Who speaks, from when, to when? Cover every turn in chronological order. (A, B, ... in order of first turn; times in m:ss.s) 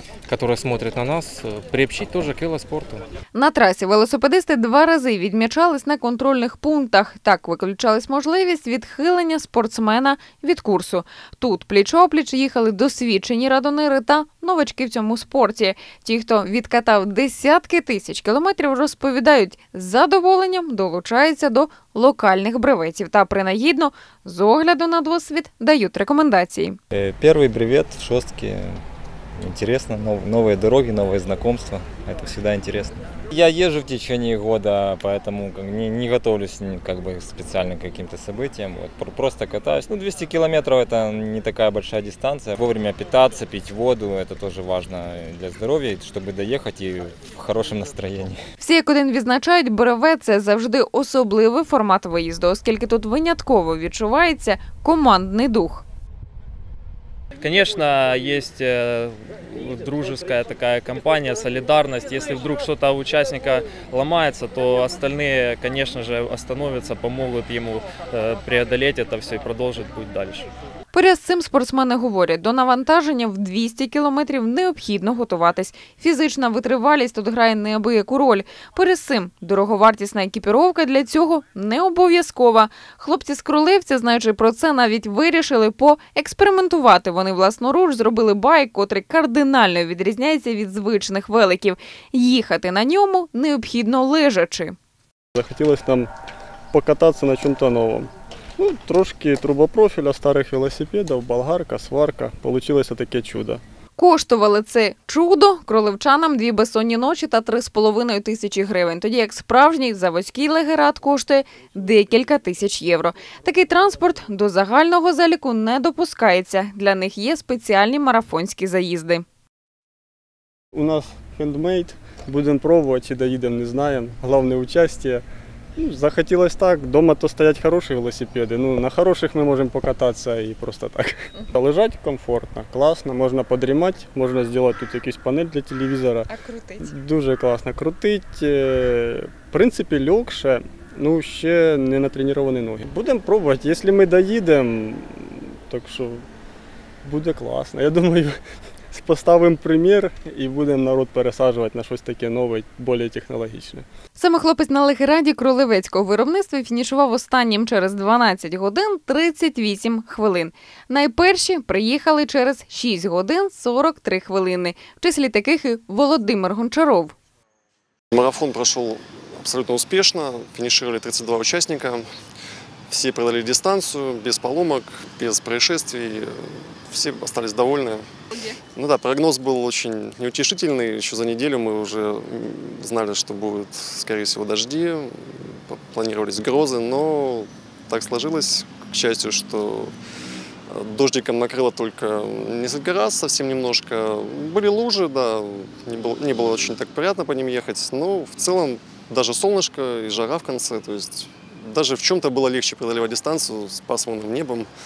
0:00.2-0:03.0 A
0:03.3-0:26.8 B
0:26.9-0:28.8 C
0:29.4-0:48.4 C
0:48.6-0:55.8 B
0:57.4-1:10.5 D
1:10.9-1:34.8 B
1:35.4-1:36.1 E
1:36.7-1:38.1 E
1:38.6-1:43.6 E
1:44.0-1:59.2 B
2:00.7-2:05.2 E
2:05.8-2:16.3 E
2:16.3-2:16.9 B
2:16.8-2:26.2 E
2:27.0-2:28.4 E
2:28.9-2:33.8 E
2:34.2-2:47.1 B
2:48.1-2:52.0 F
2:52.9-2:58.0 F
2:58.8-3:09.9 F
3:10.7-3:24.7 F